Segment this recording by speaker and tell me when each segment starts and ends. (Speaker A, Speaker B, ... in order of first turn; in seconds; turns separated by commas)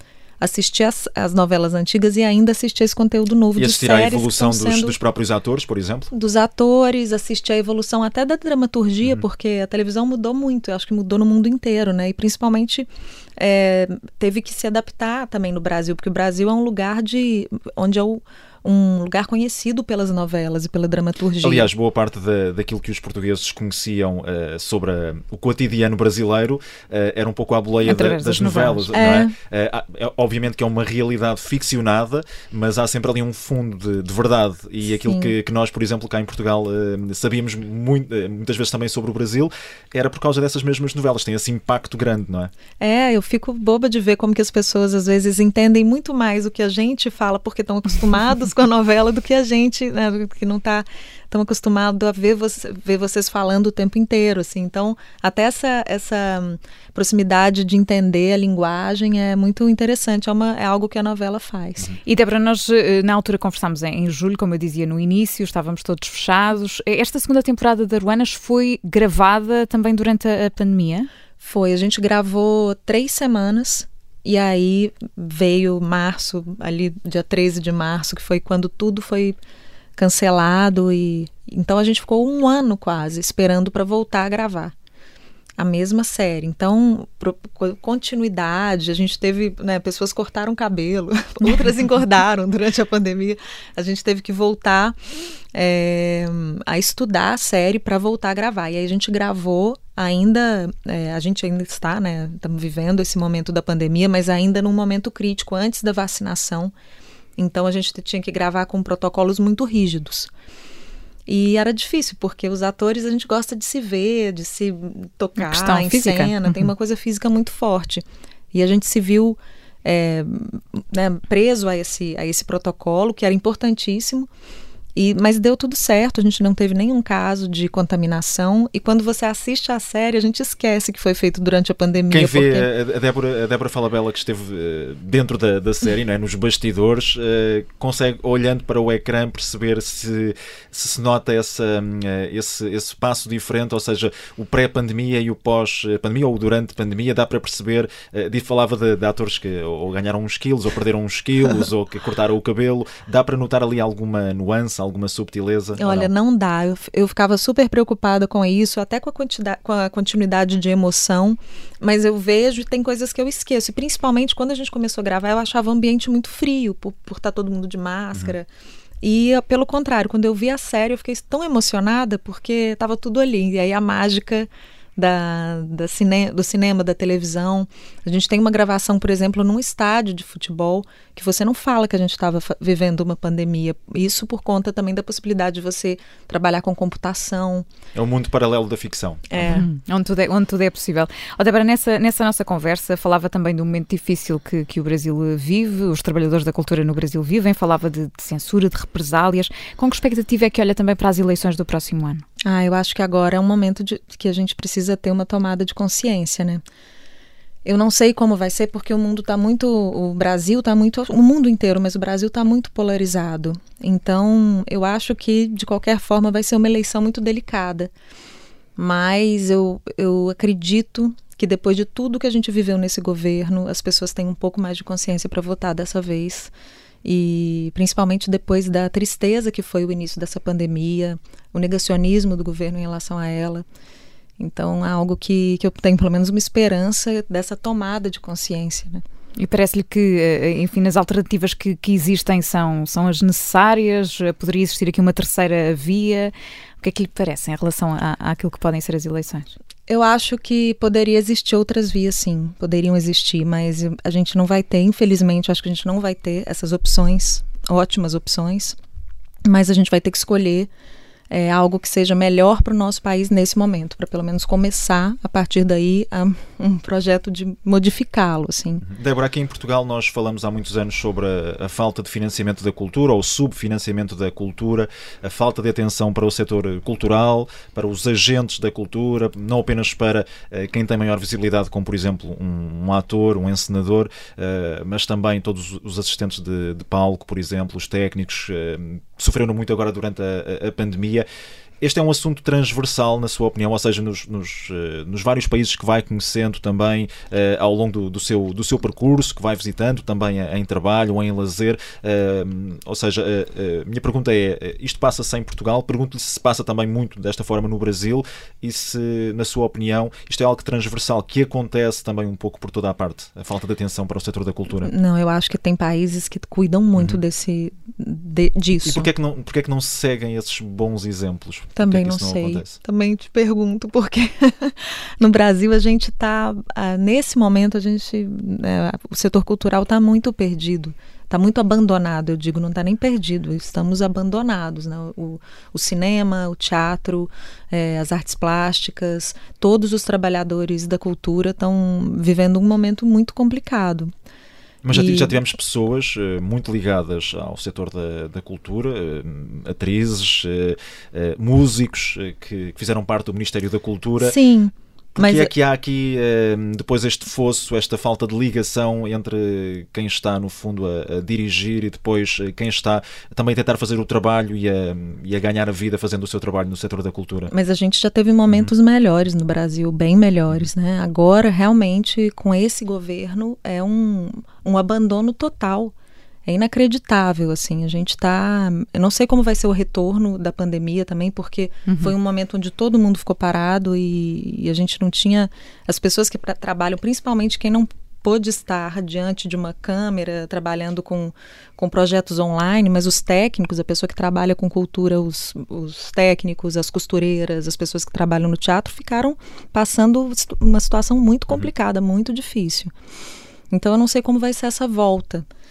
Speaker A: 0.4-5.0, Speaker B: 3.5-6.1, Speaker A: 6.1-21.7, Speaker B: 21.4-42.5, Speaker C: 27.8-28.9, Speaker A: 28.9-29.3, Speaker A: 34.9-35.3, Speaker A: 42.8-61.9, Speaker C: 62.0-71.1, Speaker A: 71.4-79.4, Speaker A: 80.0-84.7, Speaker A: 85.6-95.0, Speaker A: 95.5-106.7, Speaker A: 107.4-110.3, Speaker A: 111.3-124.3, Speaker C: 115.4-116.7, Speaker A: 124.9-132.7, Speaker B: 132.1-156.1, Speaker A: 155.8-168.5, Speaker A: 169.0-187.7, Speaker B: 187.9-189.6, Speaker A: 189.3-189.7, Speaker C: 189.4-202.2, Speaker A: 202.4-206.6, Speaker A: 207.6-217.9, Speaker A: 218.8-226.5, Speaker A: 227.0-233.6, Speaker A: 234.4-239.0, Speaker C: 239.4-249.5, Speaker A: 249.9-258.8, Speaker A: 259.4-260.7, Speaker A: 261.3-268.8, Speaker B: 268.8-291.2, Speaker B: 291.8-314.9, Speaker A: 314.8-319.1, Speaker B: 318.8-322.8, Speaker A: 321.8-344.1, Speaker B: 344.8-354.3, Speaker A: 344.9-345.4, Speaker A: 354.2-355.5, Speaker B: 355.1-367.5, Speaker A: 367.5-375.9, Speaker A: 376.4-402.9, Speaker C: 381.9-382.1, Speaker A: 403.7-405.4